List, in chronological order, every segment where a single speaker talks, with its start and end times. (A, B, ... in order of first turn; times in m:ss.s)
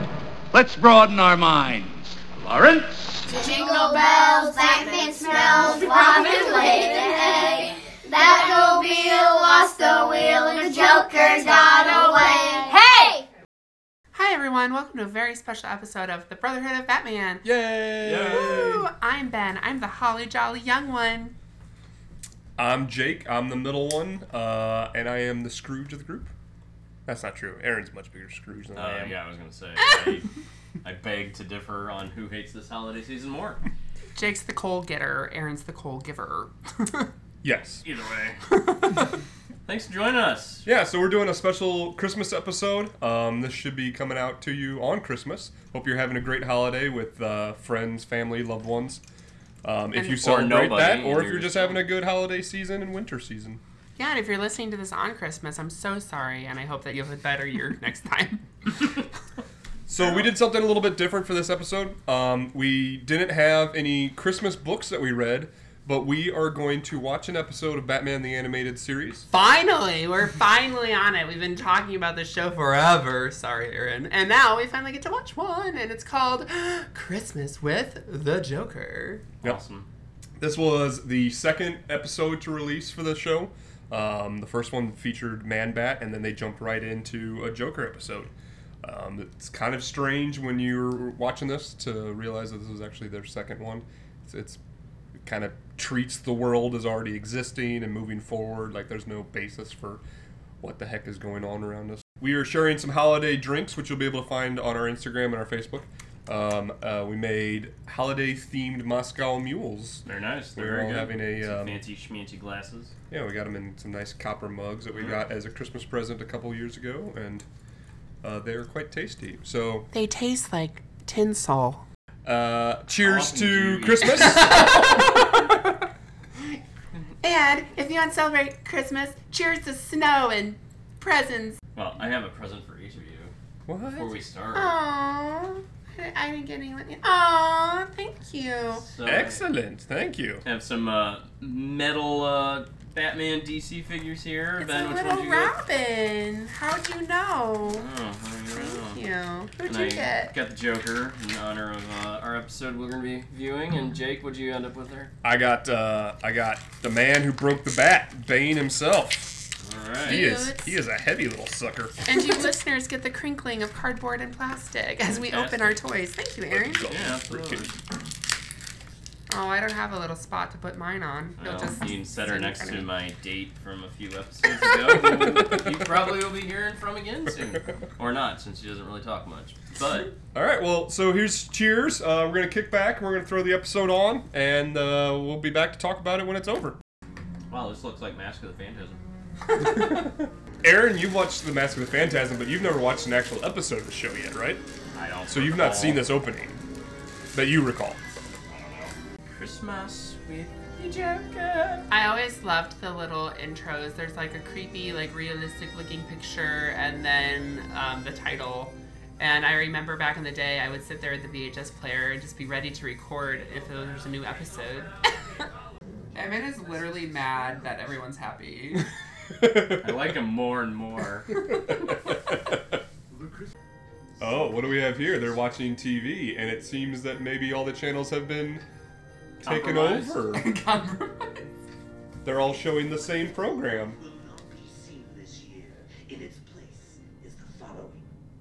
0:00.5-0:03.3 A
0:03.3-0:13.2 B
0:05.6-0:06.8 C
0:14.1-0:17.4 C
0:17.4-0:18.8 D
0:18.0-0:18.8 E
0:18.2-0:21.4 C
0:22.6-0:26.3 D
0:27.1-0:29.2 D
0:28.8-0:30.3 E
0:30.8-0:33.6 E
0:34.2-0:37.1 C
0:37.4-0:37.8 D
0:37.8-0:38.4 E
0:38.6-0:39.0 C
0:39.7-0:40.6 E
0:40.6-0:49.0 D
0:49.6-0:53.6 D
0:50.1-0:51.9 E
0:54.0-0:58.7 C
0:59.9-1:09.3 D
1:00.0-1:00.3 E
1:09.3-1:19.2 C
1:19.4-1:19.9 E
1:20.4-1:34.6 D
1:35.2-1:40.0 D
1:40.6-1:51.8 D
1:50.0-1:52.9 E
1:53.1-1:57.4 D
1:54.9-1:55.2 E
1:58.2-1:59.9 D
1:59.9-2:01.8 C
2:02.2-2:05.6 D
2:03.0-2:04.8 E
2:04.5-2:05.3 C
2:07.2-2:11.6 C
2:11.8-2:13.3 E
2:13.7-2:14.1 D
2:13.9-2:14.8 E
2:14.5-2:18.8 C
2:18.7-2:19.4 E
2:19.0-2:20.4 D
2:20.4-2:25.5 E
2:24.6-2:27.9 C
2:27.7-2:29.0 E
2:28.5-2:30.3 C
2:29.6-2:35.1 E
2:35.2-2:39.5 D
2:39.6-2:40.2 E
2:40.0-2:40.8 C
2:40.0-2:42.0 D
2:42.1-2:46.9 C
2:45.1-2:45.8 E
2:46.5-2:47.8 D
2:46.9-2:47.7 E
2:49.3-2:52.9 C
2:51.4-3:00.1 E
3:00.3-3:06.8 D
3:07.5-3:09.0 E
3:09.6-3:14.6 D
3:14.9-3:16.1 E
3:15.3-3:16.6 D
3:17.3-3:18.0 D
3:18.5-3:21.9 E
3:21.9-3:35.1 C
3:36.2-3:38.8 C
3:39.4-3:39.8 D
3:39.8-3:41.4 E
3:41.3-3:42.7 D
3:44.2-3:48.6 D
3:49.4-3:50.2 E
3:49.4-3:50.5 D
3:50.3-3:51.5 C
3:52.2-3:54.0 D
3:54.0-3:58.0 F